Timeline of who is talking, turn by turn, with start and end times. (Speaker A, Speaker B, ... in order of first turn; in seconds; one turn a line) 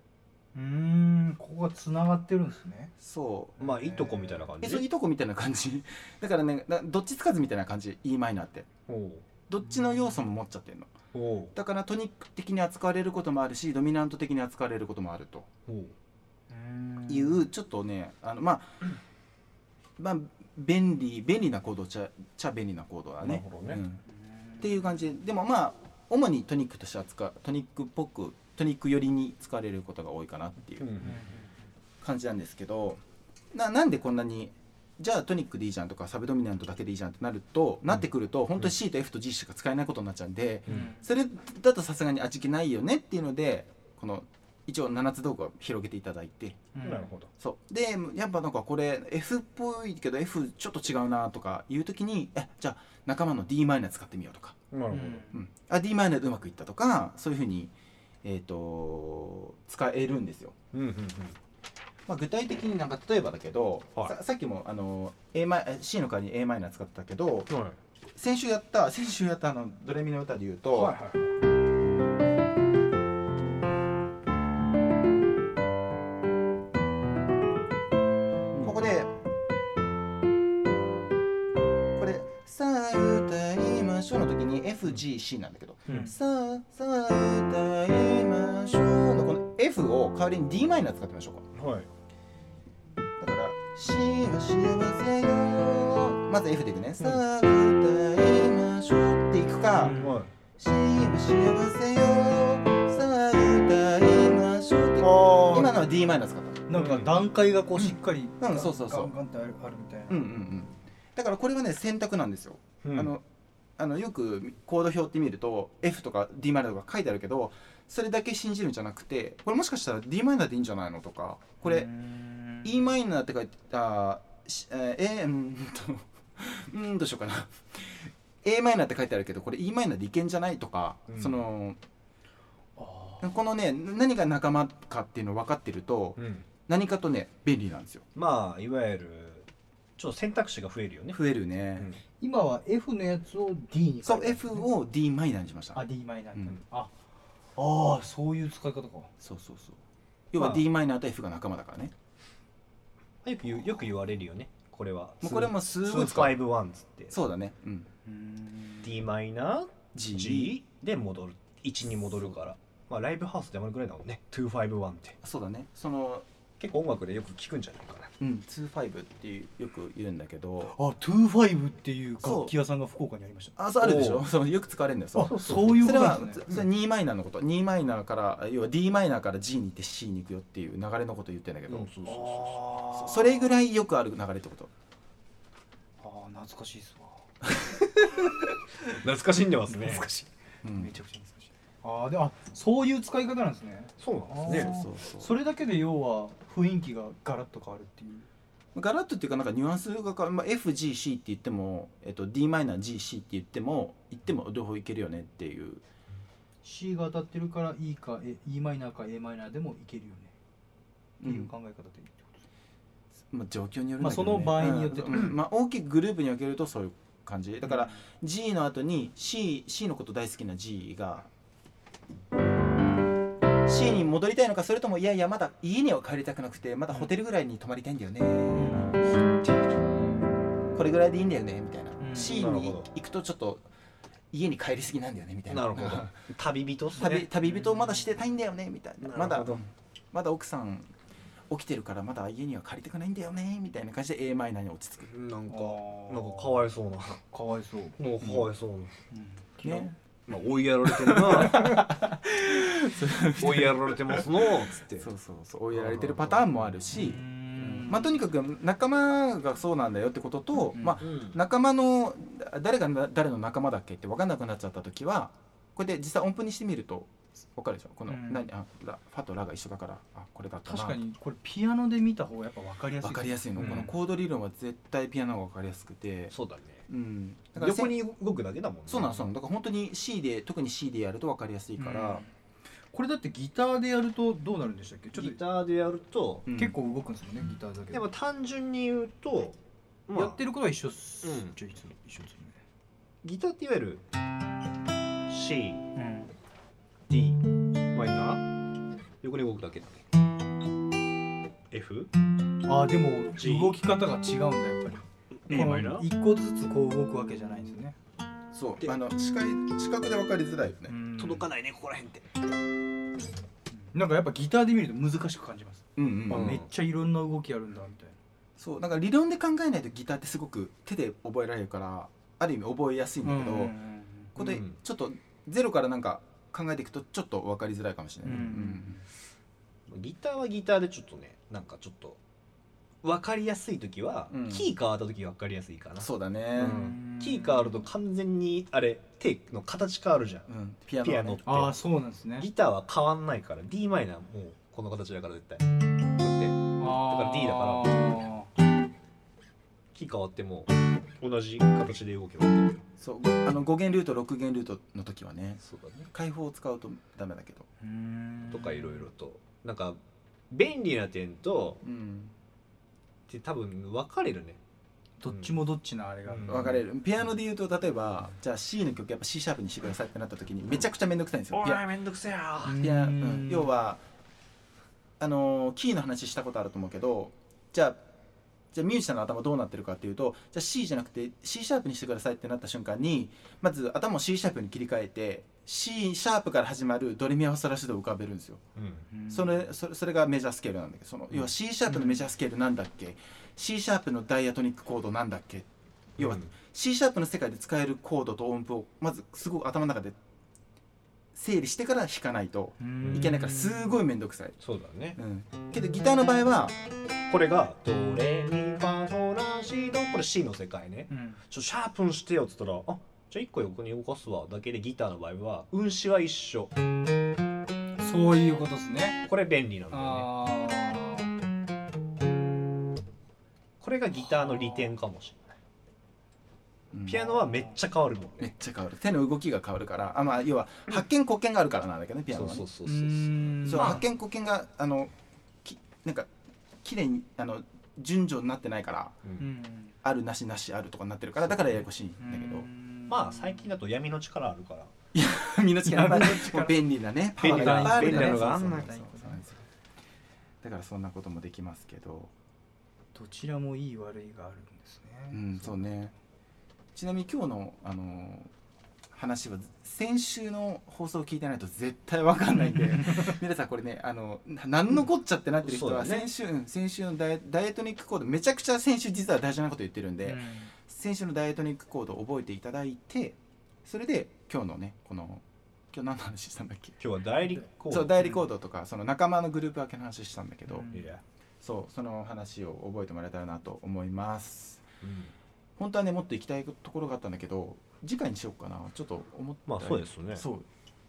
Speaker A: 0.6-2.9
Speaker B: 3.0-3.6
Speaker C: 3.6-4.9
Speaker A: 3.6-4.5
Speaker B: 4.6-8.7
Speaker C: 8.9-9.2
Speaker B: 9.5-10.9
Speaker A: 9.7-10.2
Speaker C: 11.1-11.5
Speaker B: 11.5-15.5
Speaker C: 15.7-15.9
Speaker A: 16.5-17.4
Speaker B: 17.1-18.9
Speaker B: 20.0-24.0
Speaker C: 23.2-23.8
Speaker A: 24.2-24.9
Speaker B: 24.6-30.9
Speaker C: 30.8-31.3
Speaker A: 31.0-31.6
Speaker B: 32.0-33.0
Speaker B: 33.5-46.7
Speaker A: 40.7-41.0
Speaker A: 46.8-47.1
Speaker C: 46.8-47.3
Speaker B: 47.4-54.6
Speaker C: 54.7-55.2
Speaker A: 54.9-55.4
Speaker B: 55.3-57.7
Speaker B: 58.2-60.6
Speaker C: 60.7-61.4
Speaker B: 62.1-67.5
Speaker C: 67.5-67.8
Speaker B: 68.2-71.0
Speaker C: 70.7-71.3
Speaker C: 78.5-78.8
Speaker B: 78.6-79.1
Speaker B: 82.0-91.5
Speaker C: 85.9-86.1
Speaker A: 85.9-86.2
Speaker C: 91.5-91.9
Speaker B: 93.2-100.0
Speaker A: 99.8-100.2
Speaker C: 100.0-100.3
Speaker B: 100.6-106.6
Speaker A: 105.0-105.8
Speaker A: 106.7-110.2
Speaker C: 106.7-107.1
Speaker B: 107.8-109.1
Speaker B: 110.1-113.2
Speaker C: 112.8-113.1
Speaker B: 113.8-121.9
Speaker A: 121.6-122.9
Speaker B: 122.6-131.8
Speaker C: 131.1-131.4
Speaker A: 132.8-133.4
Speaker B: 133.2-138.1
Speaker C: 136.2-136.5
Speaker C: 138.2-141.2
Speaker B: 141.1-141.9
Speaker A: 142.2-144.7
Speaker B: 144.1-145.8
Speaker A: 145.8-146.9
Speaker A: 147.6-149.1
Speaker B: 149.2-149.8
Speaker B: 150.3-151.9
Speaker C: 150.3-150.7
Speaker C: 153.2-157.2
Speaker B: 155.2-156.4
Speaker B: 157.1-157.9
Speaker A: 158.1-158.9
Speaker C: 158.8-165.2
Speaker B: 159.9-160.6
Speaker B: 165.2-166.3
Speaker C: 166.6-168.1
Speaker B: 168.2-170.8
Speaker A: 170.7-173.5
Speaker B: 172.2-172.5
Speaker B: 173.6-181.9
Speaker C: 173.8-174.3
Speaker A: 175.2-176.4
Speaker C: 175.3-176.7
Speaker C: 181.7-182.7
Speaker A: 182.1-183.5
Speaker B: 182.9-184.7
Speaker A: 186.0-187.2
Speaker C: 189.0-190.3
Speaker A: 189.7-190.1
Speaker B: 190.6-190.9
Speaker A: 190.7-198.3
Speaker C: 194.0-194.8
Speaker B: 194.5-195.3
Speaker B: 198.8-205.8
Speaker A: 206.6-210.3
Speaker B: 211.2-211.5
Speaker A: 211.2-212.4
Speaker B: 213.3-221.3
Speaker A: 214.0-215.3
Speaker A: 217.6-218.0
Speaker B: 223.7-229.0
Speaker A: 228.5-229.0
Speaker B: 230.8-233.6
Speaker A: 232.0-232.3
Speaker C: 232.2-232.9
Speaker B: 234.3-236.1
Speaker C: 235.5-237.3
Speaker B: 237.0-240.9
Speaker A: 237.5-238.0
Speaker C: 239.0-239.6
Speaker B: 241.5-245.1
Speaker C: 245.0-247.2
Speaker A: 245.5-246.7
Speaker A: 247.3-248.0
Speaker C: 248.0-249.0
Speaker B: 248.2-248.5
Speaker A: 249.1-249.9
Speaker B: 249.6-249.9
Speaker C: 250.3-251.8
Speaker B: 250.9-271.0
Speaker C: 253.4-255.1
Speaker C: 255.7-256.8
Speaker A: 256.9-258.2
Speaker A: 260.8-261.0
Speaker C: 261.0-261.4
Speaker A: 268.1-268.5
Speaker A: 270.6-273.9
Speaker B: 273.0-276.4
Speaker C: 273.6-273.9
Speaker C: 276.3-276.9
Speaker B: 276.9-278.0
Speaker C: 277.6-279.3
Speaker B: 278.9-282.2
Speaker A: 281.8-282.3
Speaker A: 282.9-285.4
Speaker C: 285.1-286.5
Speaker B: 286.5-286.8
Speaker A: 286.6-288.1
Speaker C: 287.9-290.4
Speaker A: 290.1-292.6
Speaker C: 291.2-291.6
Speaker C: 293.2-294.0
Speaker C: 295.3-295.8
Speaker A: 296.0-296.3
Speaker C: 297.1-298.5
Speaker C: 299.2-300.0
Speaker C: 301.7-302.1
Speaker A: 302.6-307.9
Speaker C: 303.4-303.8
Speaker C: 305.5-306.1
Speaker B: 305.5-305.9
Speaker B: 308.5-310.9
Speaker A: 310.9-311.5
Speaker C: 311.2-312.3
Speaker A: 313.8-318.2
Speaker B: 316.0-316.6
Speaker C: 316.3-316.7
Speaker B: 318.6-323.8
Speaker A: 323.2-324.3
Speaker B: 324.4-329.0
Speaker C: 324.4-324.8
Speaker A: 328.2-328.8
Speaker C: 329.9-332.2
Speaker C: 333.0-340.5
Speaker B: 334.3-334.7
Speaker B: 336.0-336.9
Speaker A: 336.6-337.9
Speaker B: 340.5-341.6
Speaker C: 341.0-341.7
Speaker A: 341.5-342.5
Speaker C: 342.4-348.2
Speaker A: 346.8-348.5
Speaker C: 349.9-352.8
Speaker B: 353.0-355.6
Speaker C: 355.6-356.1
Speaker B: 356.1-357.7
Speaker A: 357.8-359.1
Speaker C: 358.5-360.0
Speaker C: 360.5-361.8
Speaker B: 361.8-362.3
Speaker C: 363.3-364.6
Speaker A: 365.2-366.8
Speaker C: 365.3-365.6
Speaker C: 366.3-366.8
Speaker B: 366.4-371.8
Speaker C: 371.5-372.8
Speaker A: 372.6-373.8
Speaker B: 372.8-374.0
Speaker B: 375.2-378.0
Speaker B: 378.7-388.6
Speaker C: 388.8-389.1
Speaker A: 389.1-389.7
Speaker B: 389.3-400.2
Speaker A: 391.9-392.2
Speaker C: 396.2-396.5
Speaker B: 401.4-404.6
Speaker A: 402.8-404.0
Speaker C: 403.0-403.3
Speaker C: 404.6-405.2
Speaker B: 405.2-406.8
Speaker C: 407.3-416.8
Speaker A: 411.1-411.4
Speaker A: 418.0-419.2
Speaker C: 419.3-420.3
Speaker A: 419.9-421.3
Speaker C: 423.8-425.5
Speaker B: 426.9-427.3
Speaker C: 427.1-428.5
Speaker B: 428.4-432.6
Speaker C: 432.3-434.1
Speaker A: 432.9-434.0
Speaker B: 433.6-435.1
Speaker B: 435.6-436.3
Speaker B: 436.8-439.2
Speaker A: 439.4-440.0
Speaker B: 440.0-442.7
Speaker C: 441.4-441.9
Speaker A: 442.2-443.7
Speaker C: 443.1-444.9
Speaker B: 445.1-449.6
Speaker A: 445.9-446.8
Speaker A: 447.4-449.4
Speaker C: 447.4-449.0
Speaker B: 450.6-452.3
Speaker A: 453.1-455.8
Speaker B: 455.3-456.1
Speaker B: 456.9-458.5
Speaker B: 459.1-477.0
Speaker A: 462.6-463.4
Speaker C: 465.6-466.3
Speaker A: 470.2-470.7
Speaker C: 477.0-478.4
Speaker B: 477.9-480.9
Speaker A: 480.7-481.1
Speaker C: 480.9-481.2
Speaker B: 481.6-484.8
Speaker C: 485.0-485.3
Speaker B: 485.8-490.7
Speaker C: 489.7-490.4